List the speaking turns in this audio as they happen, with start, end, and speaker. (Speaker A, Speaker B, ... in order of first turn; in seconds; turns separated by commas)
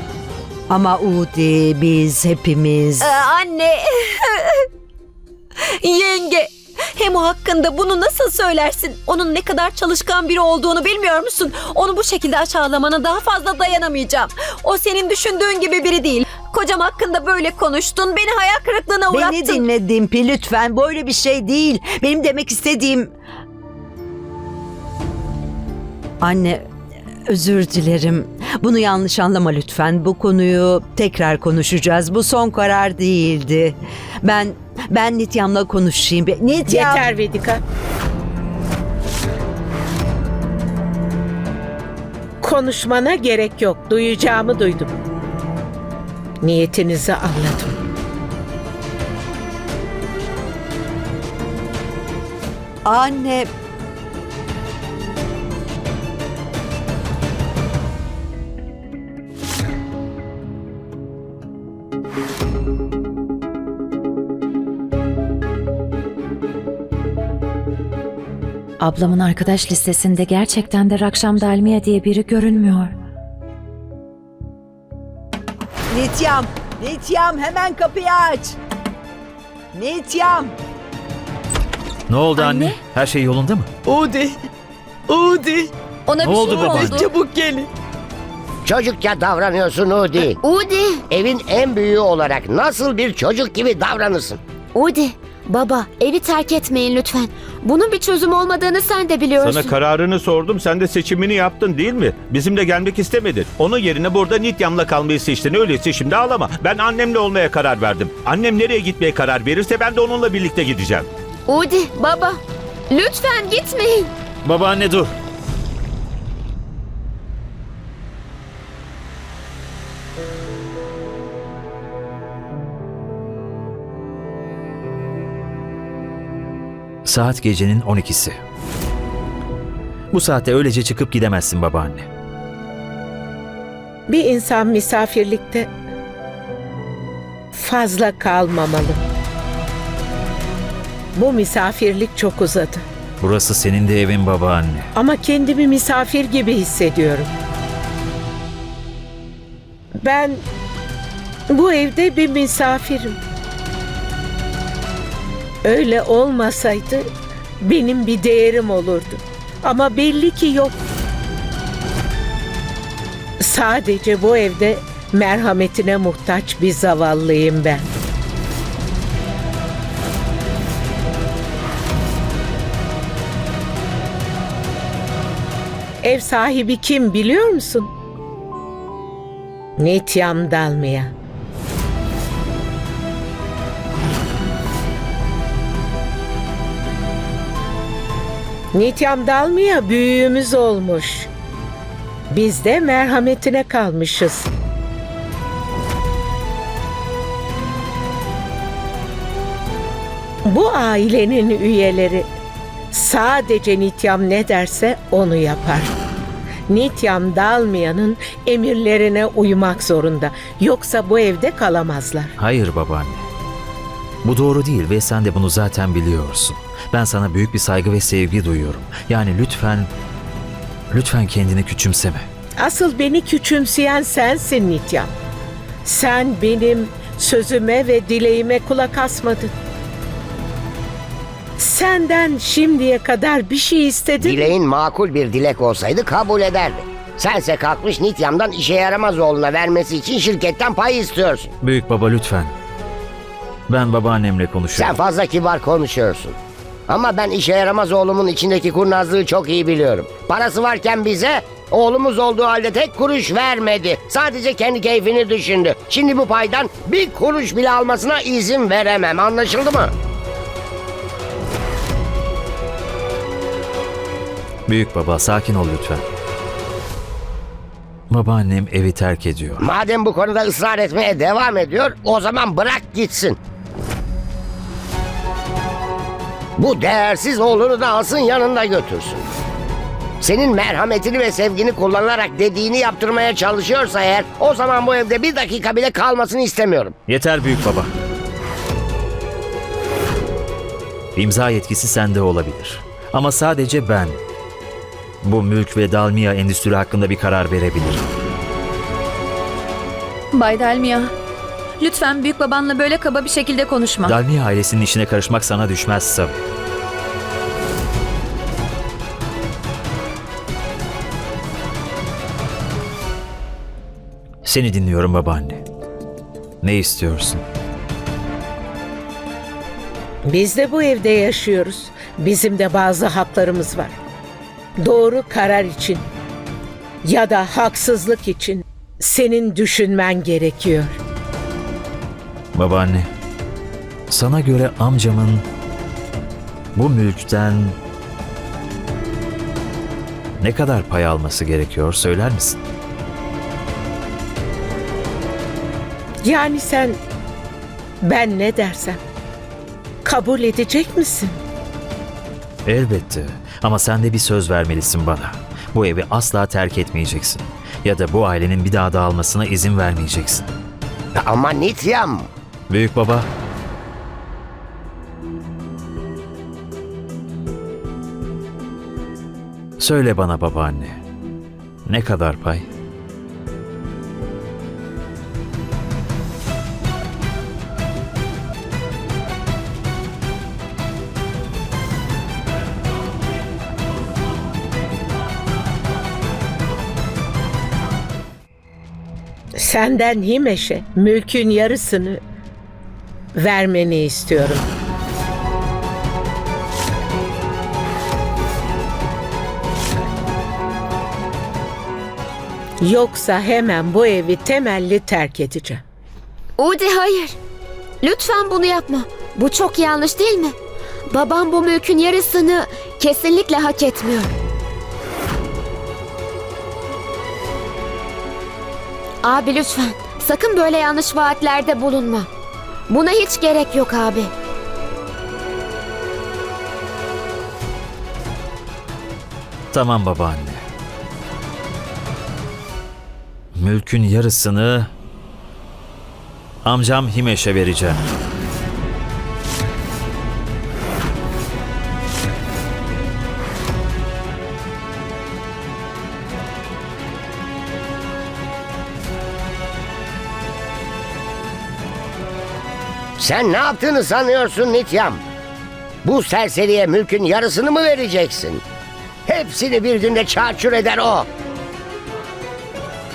Speaker A: 0.7-3.1, Speaker B: 3.0-4.7, Speaker B: 5.8-19.6, Speaker A: 19.1-23.1, Speaker A: 26.2-26.7, Speaker A: 27.3-37.0, Speaker C: 36.7-37.6, Speaker C: 42.4-45.0, Speaker C: 46.4-47.8, Speaker A: 52.9-53.5, Speaker D: 68.8-72.9, Speaker A: 75.9-78.6, Speaker A: 79.7-80.6, Speaker E: 82.1-83.7, Speaker B: 86.1-87.1, Speaker E: 86.2-87.1, Speaker F: 86.4-86.9, Speaker G: 88.7-90.4, Speaker F: 90.3-91.0, Speaker G: 91.1-94.4, Speaker F: 94.8-99.8, Speaker H: 99.4-111.1, Speaker F: 111.5-112.4, Speaker F: 112.9-114.1, Speaker E: 114.4-115.1, Speaker E: 127.0-128.4, Speaker E: 130.1-132.1, Speaker C: 134.1-135.7, Speaker C: 137.5-139.0, Speaker C: 141.1-142.8, Speaker E: 143.2-144.9, Speaker C: 144.9-147.3, Speaker C: 150.0-150.4, Speaker C: 151.5-153.2, Speaker C: 155.6-157.1, Speaker C: 157.6-160.7, Speaker C: 163.4-167.9, Speaker C: 176.0-177.9, Speaker C: 179.8-181.1, Speaker C: 188.7-191.3, Speaker C: 192.3-194.5, Speaker C: 200.5-202.3, Speaker C: 202.9-205.9, Speaker C: 206.7-212.4, Speaker E: 212.4-213.2, Speaker E: 214.2-219.9, Speaker E: 220.9-222.3, Speaker C: 222.6-225.1, Speaker C: 225.8-229.5, Speaker C: 231.6-234.5, Speaker G: 234.2-241.5, Speaker E: 241.6-242.5, Speaker E: 243.7-245.0, Speaker G: 244.8-246.4, Speaker G: 246.9-259.9, Speaker E: 264.7-266.1, Speaker E: 268.1-269.7, Speaker G: 269.6-273.4, Speaker G: 276.6-279.2, Speaker G: 280.2-287.0, Speaker E: 287.1-287.9, Speaker E: 291.2-294.2, Speaker E: 295.2-298.1, Speaker D: 300.3-301.1, Speaker D: 301.8-304.2, Speaker E: 304.1-306.4, Speaker E: 314.4-315.6, Speaker E: 316.6-317.4, Speaker C: 320.3-324.0, Speaker C: 324.8-326.0, Speaker C: 327.0-331.0, Speaker E: 332.5-333.1, Speaker E: 334.1-335.4, Speaker E: 336.8-337.8, Speaker E: 340.4-342.6, Speaker C: 346.2-347.0, Speaker C: 348.0-349.0, Speaker C: 350.1-351.4, Speaker E: 352.7-360.5, Speaker G: 361.1-362.3, Speaker E: 362.7-363.3, Speaker E: 369.8-371.0, Speaker E: 371.9-372.7, Speaker C: 389.6-392.2, Speaker C: 393.4-394.7, Speaker C: 402.8-405.8, Speaker F: 406.6-407.4, Speaker F: 408.0-410.6, Speaker F: 411.1-414.3, Speaker F: 419.2-422.3, Speaker F: 422.9-424.3, Speaker E: 429.7-430.6, Speaker E: 433.6-434.9, Speaker E: 436.6-438.1, Speaker G: 453.2-455.2, Speaker G: 456.0-458.6, Speaker G: 459.3-461.3